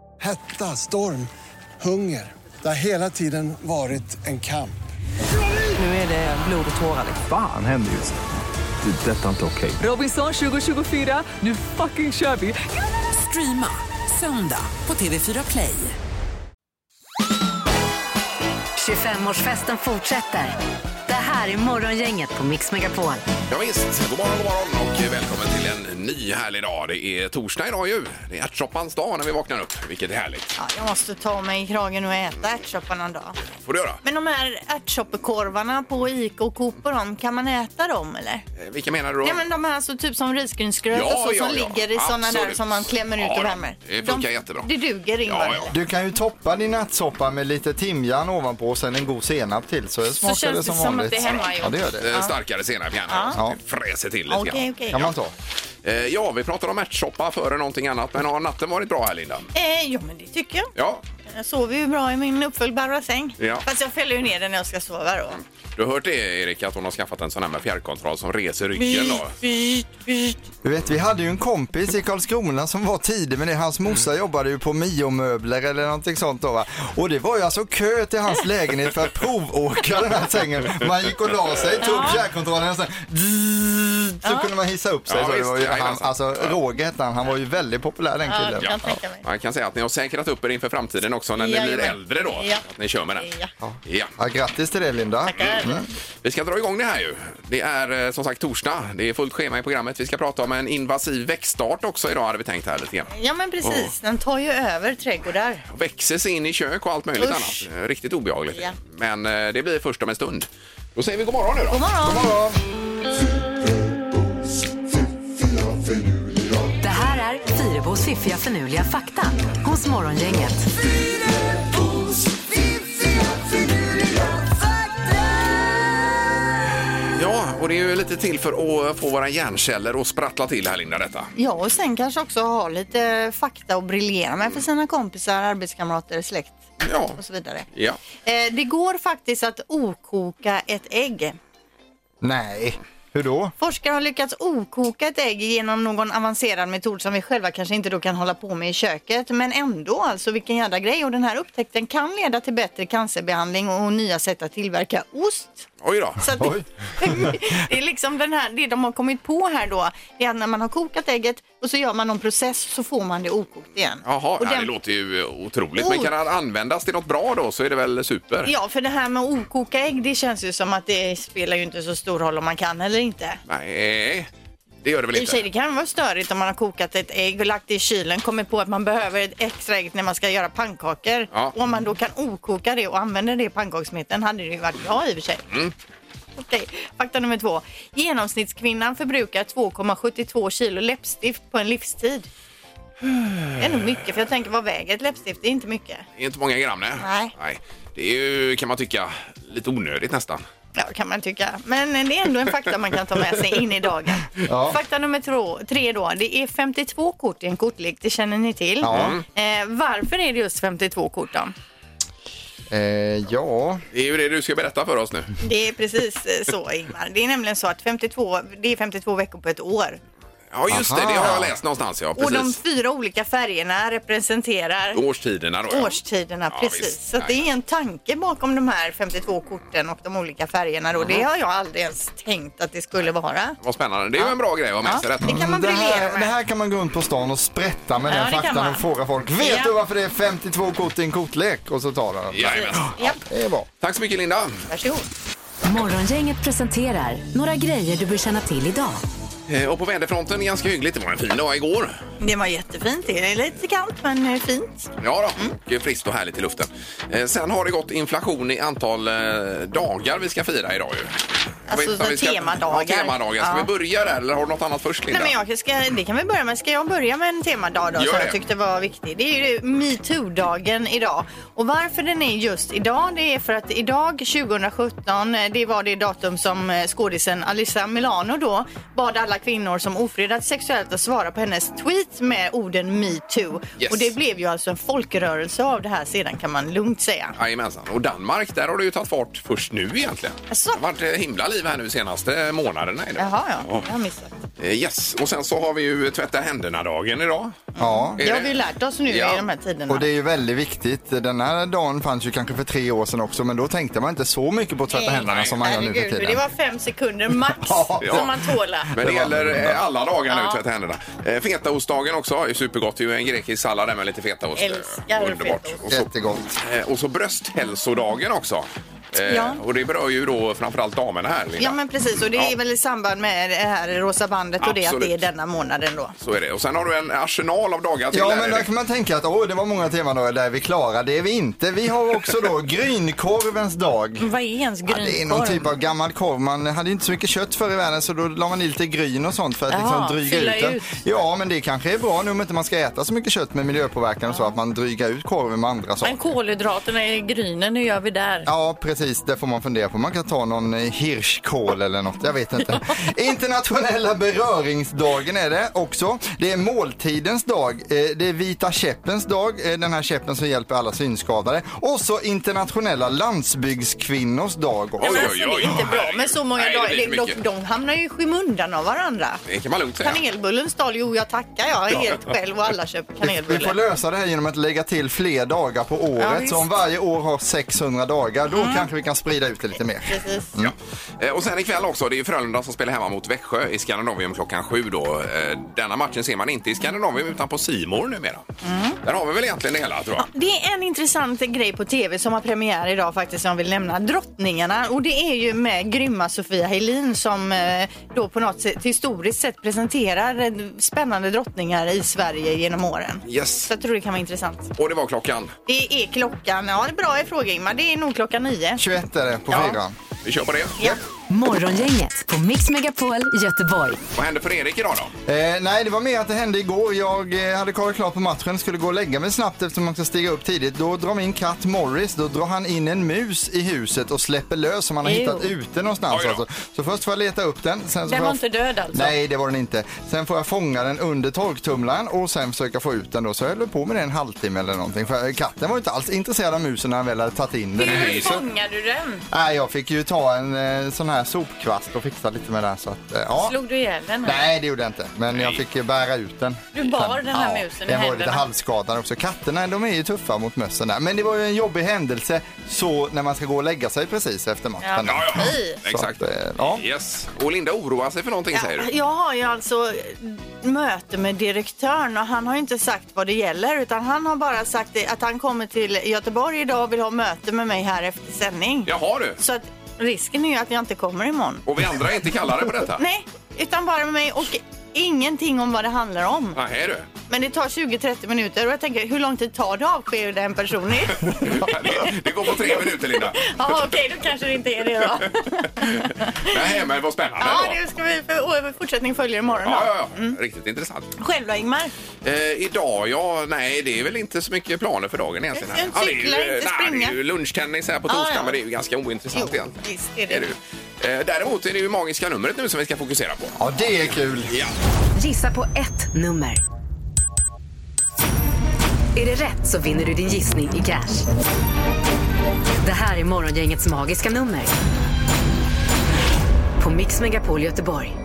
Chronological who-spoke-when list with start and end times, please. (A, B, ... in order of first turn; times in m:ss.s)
0:00.2-0:01.3 A
0:01.8-0:04.7 A
0:05.7-0:07.2 B
0:07.2-0:08.2 C
0:08.8-0:09.8 C
0:09.8-0:12.6 B
0:13.2-0:15.9 B
0:18.8-0:23.2 D
0:23.5-0:30.5 E
0:30.6-0:33.4 F
0:33.6-0:34.0 E
0:34.0-0:38.4 F
0:38.6-0:39.4 E
0:39.2-0:45.7 F
0:40.9-0:44.7 E
0:45.2-0:45.7 E
0:45.7-0:52.1 G
0:50.2-0:52.3 F
0:51.2-0:51.4 E
0:52.0-0:55.1 E
0:53.1-0:53.4 F
0:54.3-0:55.0 F
0:54.9-0:55.3 G
0:55.8-0:59.5 E
0:59.5-1:00.7 F
1:00.8-1:01.0 E
1:01.3-1:05.4 F
1:03.4-1:03.6 E
1:05.7-1:09.3 E
1:08.8-1:10.4 F
1:10.6-1:28.8 G
1:21.8-1:22.2 F
1:24.2-1:24.5 F
1:25.1-1:26.6 E
1:28.2-1:29.2 F
1:28.6-1:33.3 E
1:31.4-1:32.6 F
1:33.2-1:33.5 F
1:33.6-1:35.8 G
1:33.8-1:34.1 E
1:35.3-1:35.8 F
1:36.2-1:43.1 E
1:43.1-1:45.6 F
1:43.6-1:43.9 E
1:45.7-1:51.8 E
1:47.2-1:47.6 F
1:51.7-1:52.3 F
1:52.0-1:52.6 G
1:56.8-2:00.7 D
2:07.1-2:11.3 E
2:11.4-2:16.6 F
2:16.8-2:17.2 E
2:17.2-2:17.6 F
2:17.7-2:18.0 E
2:18.2-2:21.4 F
2:22.2-2:23.5 G
2:23.6-2:35.7 F
2:35.8-2:36.2 E
2:36.2-2:44.7 F
2:36.4-2:37.4 G
2:44.0-2:48.5 E
2:45.8-2:46.1 F
2:48.4-2:53.4 F
2:53.5-2:54.3 E
2:54.8-2:55.4 E
2:55.1-3:05.4 F
3:06.4-3:12.3 F
3:13.0-3:13.4 E
3:13.6-3:16.0 F
3:16.2-3:20.4 E
3:17.0-3:17.3 F
3:20.8-3:31.5 F
3:24.4-3:24.8 G
3:28.8-3:29.2 G
3:28.9-3:29.2 E
3:32.7-3:33.8 G
3:33.9-3:35.3 E
3:35.4-3:40.0 F
3:40.5-3:42.6 E
3:40.7-3:41.5 G
3:42.2-3:45.0 F
3:44.9-3:46.0 E
3:45.7-3:53.6 F
3:46.5-3:47.3 E
3:53.6-3:55.4 E
3:54.2-3:56.3 F
3:55.2-4:03.7 G
3:58.1-3:58.8 F
3:59.4-3:59.7 F
4:02.3-4:03.0 E
4:02.4-4:03.2 F
4:03.8-4:04.7 E
4:04.7-4:05.1 F
4:05.6-4:09.0 D
4:09.5-4:12.0 E
4:12.2-4:15.5 F
4:15.0-4:21.2 E
4:21.7-4:25.3 E
4:21.7-4:23.7 F
4:25.1-4:47.3 F
4:28.0-4:28.4 E
4:43.8-4:44.1 E
4:47.4-4:53.8 E
4:50.5-4:50.8 F
4:53.2-4:54.4 F
4:54.6-4:57.6 E
4:57.7-5:00.0 F
4:57.8-4:58.2 G
4:58.2-4:58.5 E
4:59.1-4:59.4 E
4:59.9-5:06.4 G
5:04.9-5:08.9 F
5:05.2-5:05.6 E
5:07.6-5:08.3 G
5:08.0-5:08.3 E
5:08.9-5:21.8 E
5:08.9-5:09.8 G
5:10.3-5:10.6 F
5:14.6-5:15.8 F
5:15.9-5:16.6 G
5:19.2-5:19.6 F
5:21.6-5:26.1 F
5:24.6-5:25.2 E
5:26.2-5:28.6 E
5:28.1-5:34.3 G
5:34.2-5:35.7 F
5:34.9-5:46.2 G
5:39.7-5:41.0 F
5:44.3-5:44.5 F
5:46.0-5:48.5 F
5:48.4-6:05.8 G
6:05.0-6:09.4 F
6:05.0-6:07.4 E
6:09.5-6:10.2 E
6:10.0-6:13.8 F
6:13.2-6:20.7 G
6:16.2-6:16.6 F
6:18.5-6:18.8 F
6:20.1-6:20.5 F
6:20.6-6:28.4 E
6:28.6-6:29.0 F
6:29.0-6:30.3 E
6:30.2-6:44.7 F
6:43.2-6:43.7 E
6:44.8-6:45.5 E
6:45.6-6:48.8 F
6:48.8-6:50.0 G
6:49.5-6:49.8 F
6:50.2-6:50.8 E
6:51.3-6:54.0 D
6:54.1-6:55.1 E
6:55.2-7:08.4 G
7:05.0-7:05.5 F
7:06.1-7:06.4 E
7:08.1-7:09.2 F
7:08.9-7:18.4 G
7:17.8-7:19.2 F
7:17.8-7:18.4 E
7:19.3-7:23.6 G
7:23.4-7:24.5 F
7:24.2-7:36.8 G
7:25.3-7:25.6 E
7:26.7-7:28.4 F
7:34.8-7:35.8 F
7:35.0-7:38.9 E
7:38.5-7:51.6 F
7:48.9-7:49.4 E
7:51.6-7:53.0 E
7:53.0-7:56.6 F
7:56.5-7:57.1 E
7:57.3-8:02.1 F
8:01.2-8:03.9 E
8:03.3-8:06.6 F
8:05.8-8:07.8 E
8:07.4-8:10.4 F
8:09.6-8:11.1 E
8:11.2-8:11.9 F
8:12.2-8:19.8 E
8:15.5-8:17.2 F
8:18.1-8:18.6 F
8:19.3-8:20.5 F
8:20.3-8:23.6 E
8:23.6-8:24.5 G
8:24.4-8:24.7 E
8:25.2-8:26.6 D
8:29.1-8:31.3 D
8:32.8-8:34.7 D
8:36.8-8:38.2 D